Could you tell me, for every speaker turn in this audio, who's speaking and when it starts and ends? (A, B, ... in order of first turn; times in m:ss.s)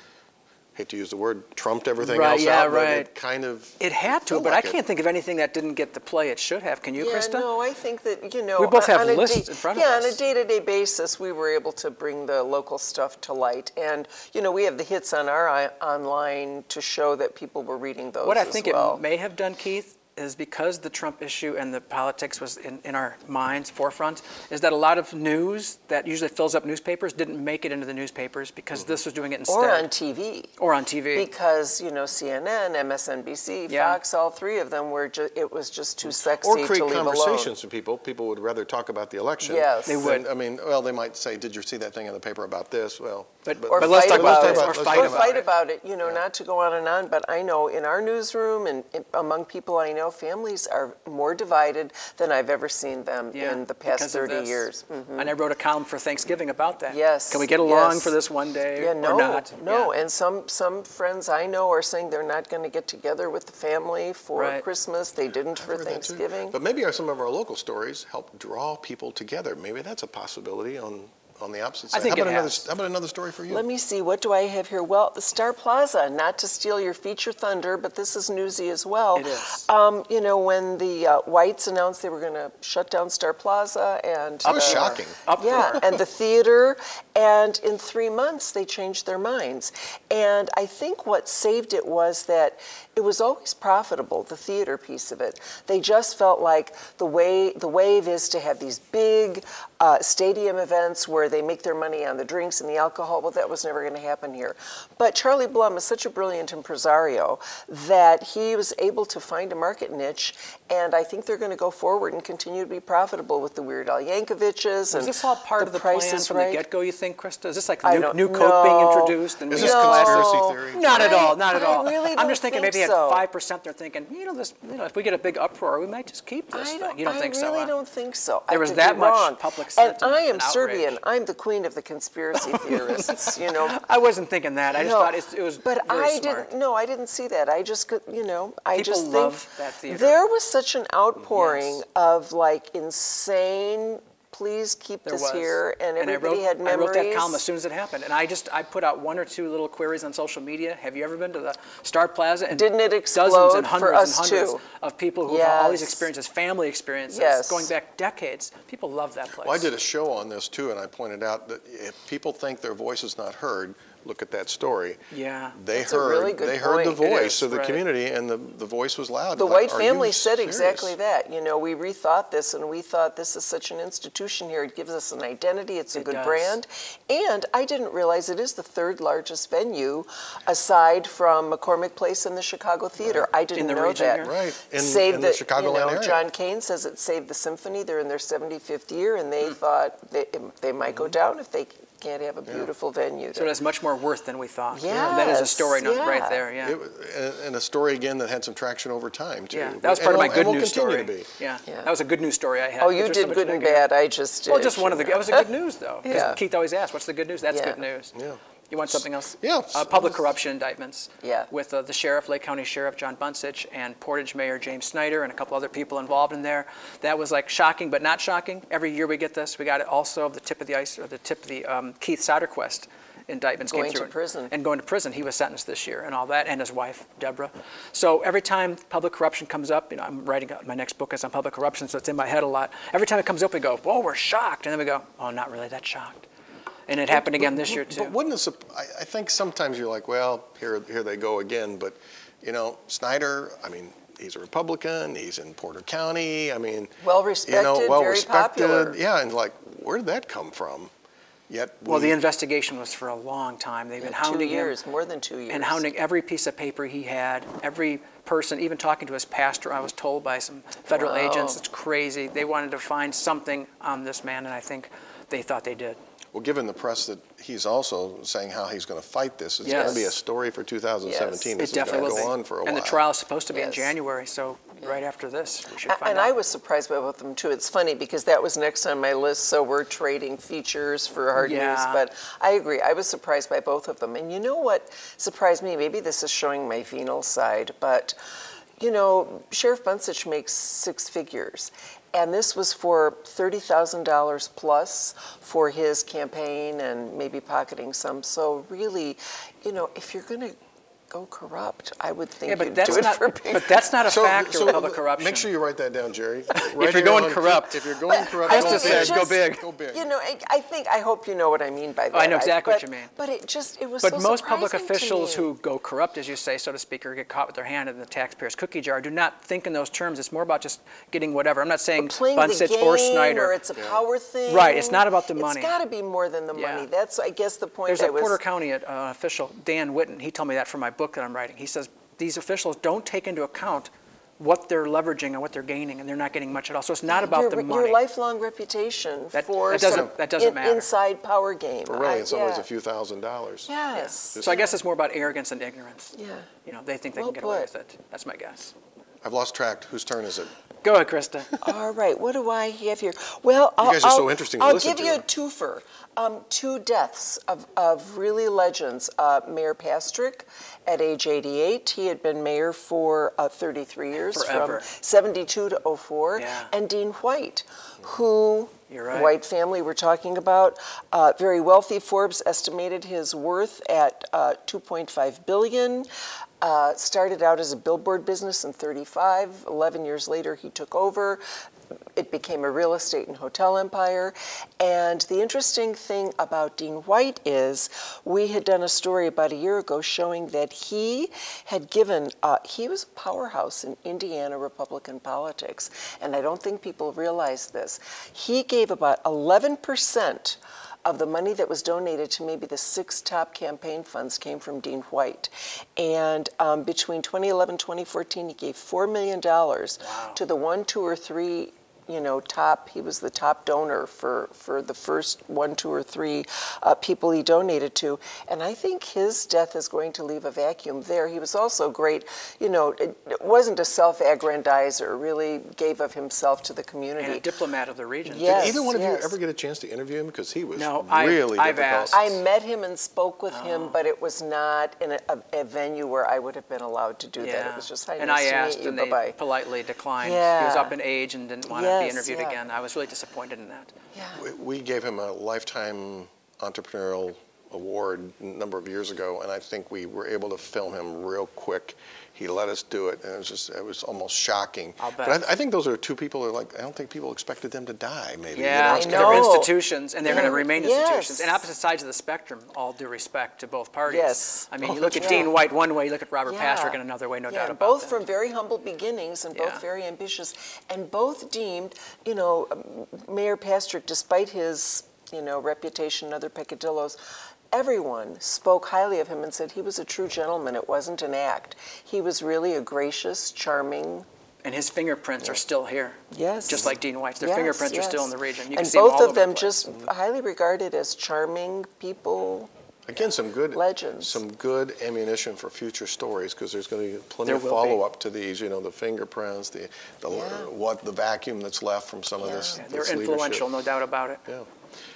0:00.7-0:04.8 A
0:02.0-0:03.1 B
0:03.8-0:07.5 B
0:07.0-0:19.0 C
0:08.6-0:10.2 B
0:18.2-0:29.9 B
0:29.5-0:30.5 C
0:30.6-0:31.3 B
0:31.1-0:37.5 C
0:33.7-0:34.0 B
0:36.1-0:45.3 A
0:39.4-0:40.1 C
0:39.8-0:40.3 B
0:43.4-0:45.5 B
0:43.7-0:55.3 C
0:53.3-0:59.9 B
0:56.9-0:58.2 C
0:58.8-1:06.6 C
1:04.3-1:04.6 B
1:05.5-1:13.6 A
1:11.9-1:12.6 B
1:13.5-1:56.6 C
1:19.1-1:19.7 B
1:24.4-1:25.8 A
1:24.4-1:25.9 B
1:54.9-2:07.7 B
1:57.8-2:03.2 C
1:59.5-2:01.4 A
2:06.5-2:13.8 C
2:08.5-2:11.0 B
2:12.4-2:16.5 B
2:14.7-2:27.4 C
2:18.7-2:20.2 B
2:21.3-2:21.8 B
2:25.0-2:39.7 B
2:32.5-2:34.6 C
2:35.2-2:36.1 C
2:37.1-2:37.7 C
2:39.4-2:45.0 A
2:45.1-2:45.6 B
2:45.5-2:51.0 A
2:45.7-2:47.0 C
2:47.0-2:47.8 B
2:49.3-3:13.5 C
2:55.9-2:56.6 B
3:03.5-3:04.3 B
3:04.2-3:06.2 A
3:13.3-3:16.8 B
3:14.7-3:16.4 C
3:14.9-3:15.3 A
3:16.6-3:21.3 A
3:19.5-3:23.9 B
3:22.8-3:25.5 C
3:24.5-3:28.1 B
3:26.0-3:26.4 C
3:27.5-3:27.8 C
3:28.1-3:28.4 A
3:28.7-3:56.2 B
3:28.9-3:30.2 A
3:31.2-3:31.5 C
3:43.7-3:44.5 C
3:56.9-3:58.1 B
3:57.1-4:06.9 A
4:07.0-4:09.0 C
4:07.4-4:10.9 A
4:11.5-4:12.2 A
4:11.8-4:14.7 B
4:14.0-4:15.8 C
4:15.5-4:26.0 B
4:20.9-4:21.6 C
4:26.3-4:33.0 A
4:29.6-4:30.1 B
4:29.6-4:30.1 C
4:31.0-4:32.0 C
4:31.6-4:36.3 B
4:33.5-4:33.9 C
4:35.8-4:48.2 C
4:41.3-4:42.0 B
4:48.8-5:00.6 C
5:01.1-5:03.8 C
5:02.4-5:05.5 B
5:04.0-5:10.1 A
5:06.6-5:09.6 B
5:08.1-5:15.5 C
5:12.1-5:13.1 B
5:14.0-5:23.6 B
5:22.0-5:28.4 C
5:23.8-5:24.0 A
5:24.5-5:25.8 B
5:26.5-5:26.9 B
5:27.9-5:38.0 B
5:37.1-5:42.7 C
5:39.3-5:40.9 B
5:39.7-5:40.1 A
5:41.8-5:43.7 A
5:43.7-5:44.8 C
5:43.9-5:48.7 B
5:46.2-5:46.5 C
5:47.2-5:47.7 C
5:49.2-5:50.5 A
5:50.8-5:51.5 B
5:51.6-6:16.1 C
5:53.8-5:55.2 A
6:04.3-6:04.8 B
6:06.4-6:06.7 B
6:08.9-6:09.3 B
6:16.6-6:21.4 C
6:22.2-7:07.5 C
6:50.0-6:50.4 B
7:07.2-7:08.8 B
7:08.2-7:09.4 C
7:08.4-7:12.4 A
7:10.7-7:12.2 B
7:12.1-7:19.4 C
7:13.5-7:14.0 B
7:17.4-7:23.9 B
7:20.2-7:20.9 C
7:21.7-7:22.6 C
7:24.1-7:24.4 C
7:24.4-7:39.6 A
7:35.0-7:35.4 B
7:38.5-7:48.2 B
7:38.9-7:41.6 C
7:44.0-7:45.5 C
7:44.8-7:45.5 A
7:46.4-7:57.2 C
7:49.5-7:49.8 B
7:57.7-8:04.2 C
8:04.6-8:09.9 B
8:06.3-8:12.7 C
8:13.1-8:23.7 A
8:13.7-8:14.4 C
8:17.4-8:18.0 B
8:20.3-8:20.7 C
8:22.4-8:22.8 C
8:22.8-8:24.4 B